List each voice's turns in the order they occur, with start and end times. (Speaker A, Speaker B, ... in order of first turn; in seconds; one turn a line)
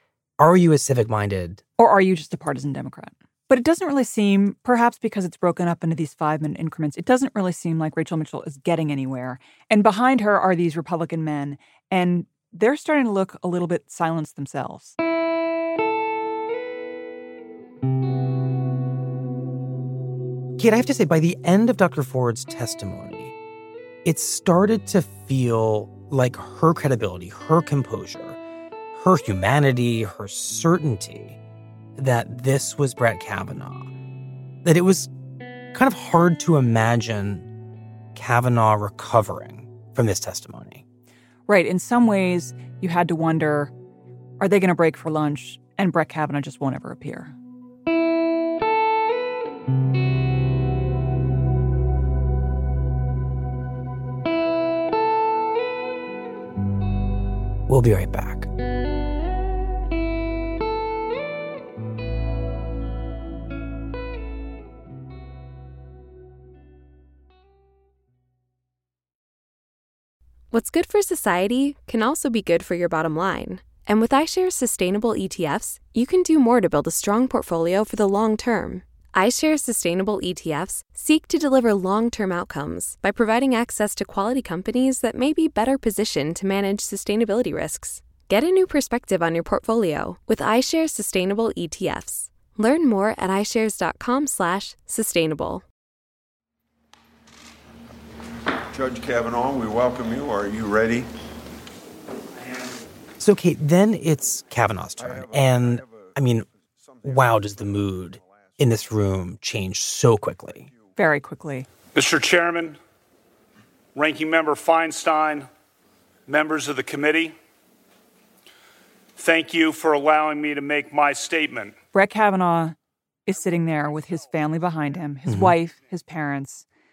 Speaker A: 0.4-1.6
Speaker B: 1.8-15.0
Speaker A: 20.6-23.3
Speaker A: 24.1-28.4
Speaker A: 28.9-31.4
Speaker A: 32.0-33.9
Speaker A: 34.6-35.1
Speaker A: 35.7-37.5
Speaker A: 38.1-40.8
Speaker B: 41.5-43.7
Speaker B: 44.4-47.4
Speaker A: 57.7-58.5
Speaker C: 70.5-95.6
Speaker D: 98.7-101.1
Speaker A: 103.2-106.5
Speaker D: 105.0-106.1
Speaker D: 106.8-107.3
Speaker A: 107.0-110.7
Speaker B: 111.0-111.7
Speaker E: 111.9-112.8
Speaker E: 114.0-115.5
Speaker E: 116.3-117.3
Speaker E: 119.2-121.8
Speaker B: 121.9-126.7
Speaker A: 125.3-125.6